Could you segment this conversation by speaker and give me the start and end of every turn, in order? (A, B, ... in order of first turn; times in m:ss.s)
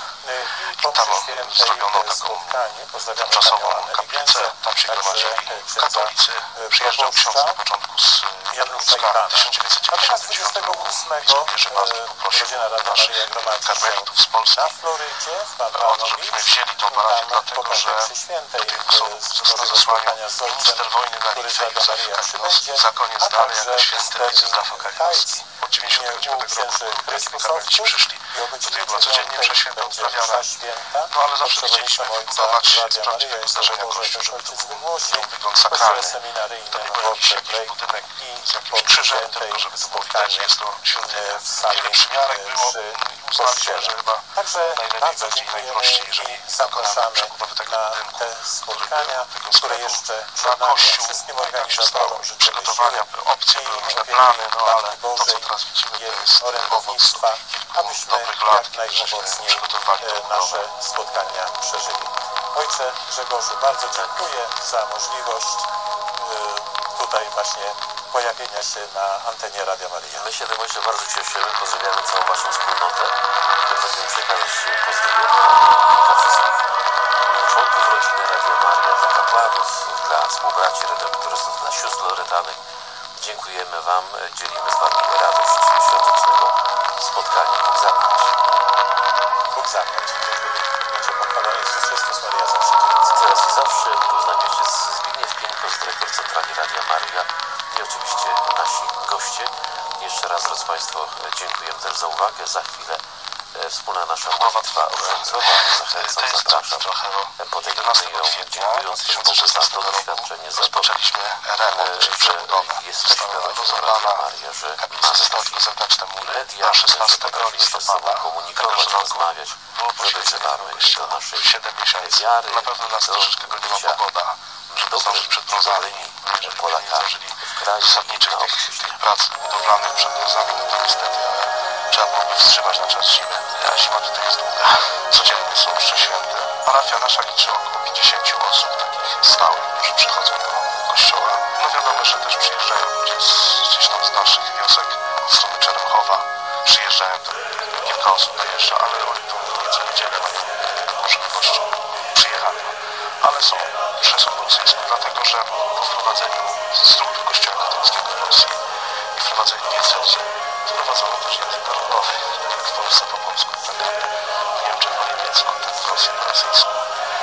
0:00.2-0:07.6 A
0:00.8-0:02.6 B
0:03.2-0:14.8 B
0:08.5-1:10.2 A
0:15.7-0:18.1 B
0:18.6-0:30.5 B
0:31.1-1:00.6 B
1:03.9-1:04.3 C
1:10.1-1:16.6 C
1:17.2-1:22.6 C
1:23.2-1:28.3 C
1:29.5-1:33.4 A
1:33.1-1:43.0 C
1:43.5-1:51.0 C
1:44.3-1:54.3 B
1:51.5-2:04.0 C
1:54.8-2:38.6 B
2:04.7-2:09.0 C
2:39.1-2:44.0 B
2:44.6-2:46.9 B